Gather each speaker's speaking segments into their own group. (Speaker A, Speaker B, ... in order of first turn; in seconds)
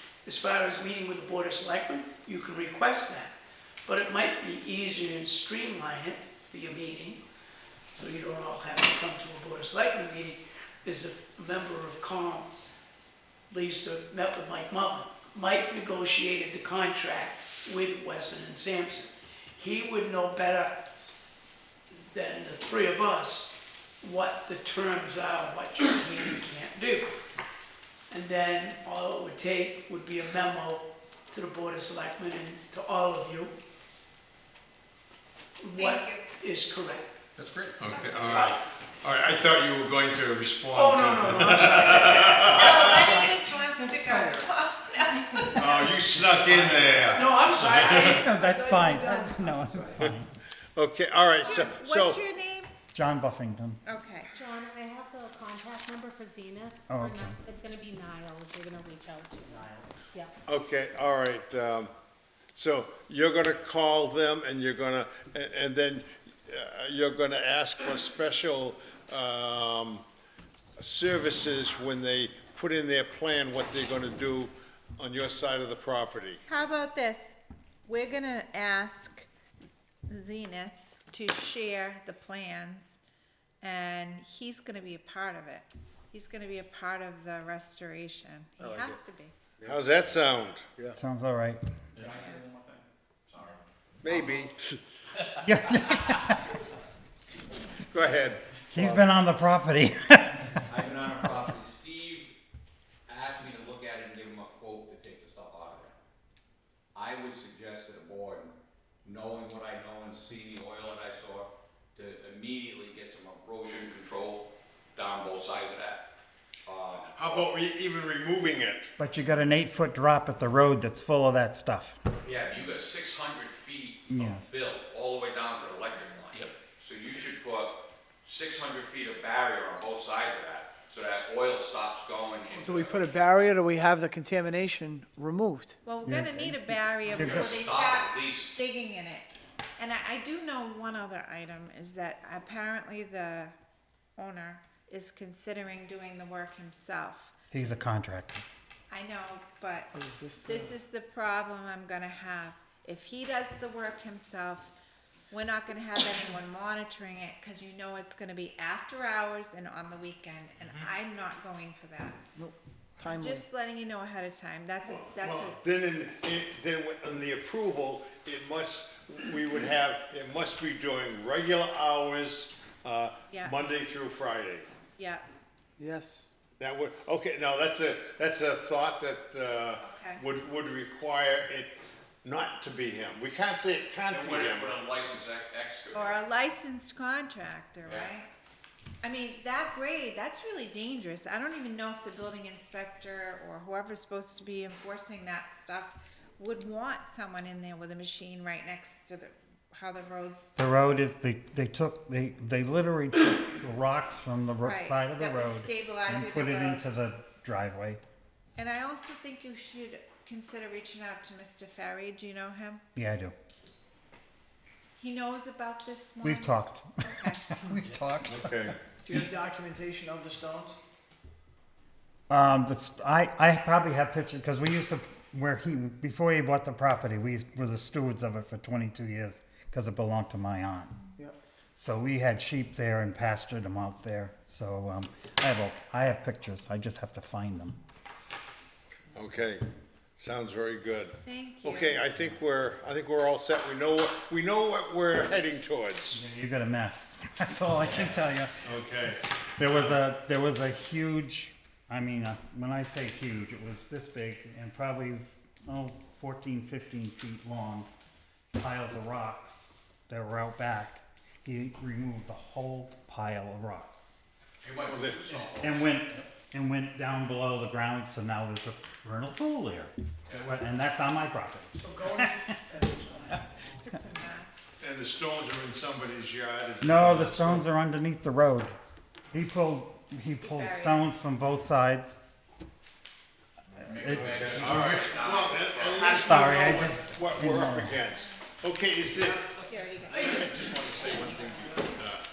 Speaker A: 0.2-3.3, 3.9-7.2, 7.9-12.5, 13.5-20.8, 22.1-23.5, 24.0-27.1, 28.1-33.5, 35.6-37.1, 38.2-38.6, 40.7-42.4, 47.1-50.1
Speaker B: 35.8-36.3, 42.0-45.8, 51.3-52.7, 53.9-54.3, 76.5-79.3, 80.1-83.0, 83.6-89.3, 92.0-92.4, 135.8-139.3, 139.8-143.5, 144.2-147.3, 148.9-154.8, 155.3-162.2, 163.0-165.6, 173.3-173.6, 175.0-175.2, 179.8-180.2, 185.9-188.3, 189.0-200.6, 204.7-206.8, 208.6-212.8, 215.0-217.4, 241.2-242.2, 273.6-274.8, 280.4-281.1, 289.7-290.6
Speaker C: 37.5-43.3, 45.6-48.2, 50.8-52.2, 60.5-61.9, 62.5-70.0, 70.8-76.4, 89.6-90.8, 94.0-94.8, 97.9-99.1, 117.2-118.9, 164.9-174.7, 176.6-184.8, 218.3-218.8, 239.1-239.7, 240.2-246.2, 248.6-250.0, 264.9-265.3, 274.8-277.7, 284.2-289.5, 290.1-292.2
Speaker D: 48.0-50.3, 52.9-53.8, 56.9-57.4, 59.5-60.0, 91.0-91.6, 95.4-96.5, 98.7-100.6, 119.0-122.0, 124.1-124.4, 136.1-137.6, 147.5-148.4, 200.6-208.0, 212.9-213.3, 216.2-218.8, 222.3-231.0, 231.8-237.8, 246.1-248.6, 249.6-257.9, 258.6-264.2, 265.6-272.6, 276.8-278.7, 279.3-282.2, 283.9-285.3, 286.0-288.0
Speaker E: 54.3-60.3
Speaker F: 92.0-94.4, 100.7-102.3, 103.1-106.0, 107.0-116.1, 116.7-117.5, 122.2-133.1, 137.2-138.5, 184.1-186.2, 187.8-188.2, 264.6-265.9, 283.8-286.6, 290.8-291.9
Speaker G: 132.5-135.8, 150.0-150.7, 162.4-163.4, 175.8-176.3, 219.0-220.8, 271.8-272.3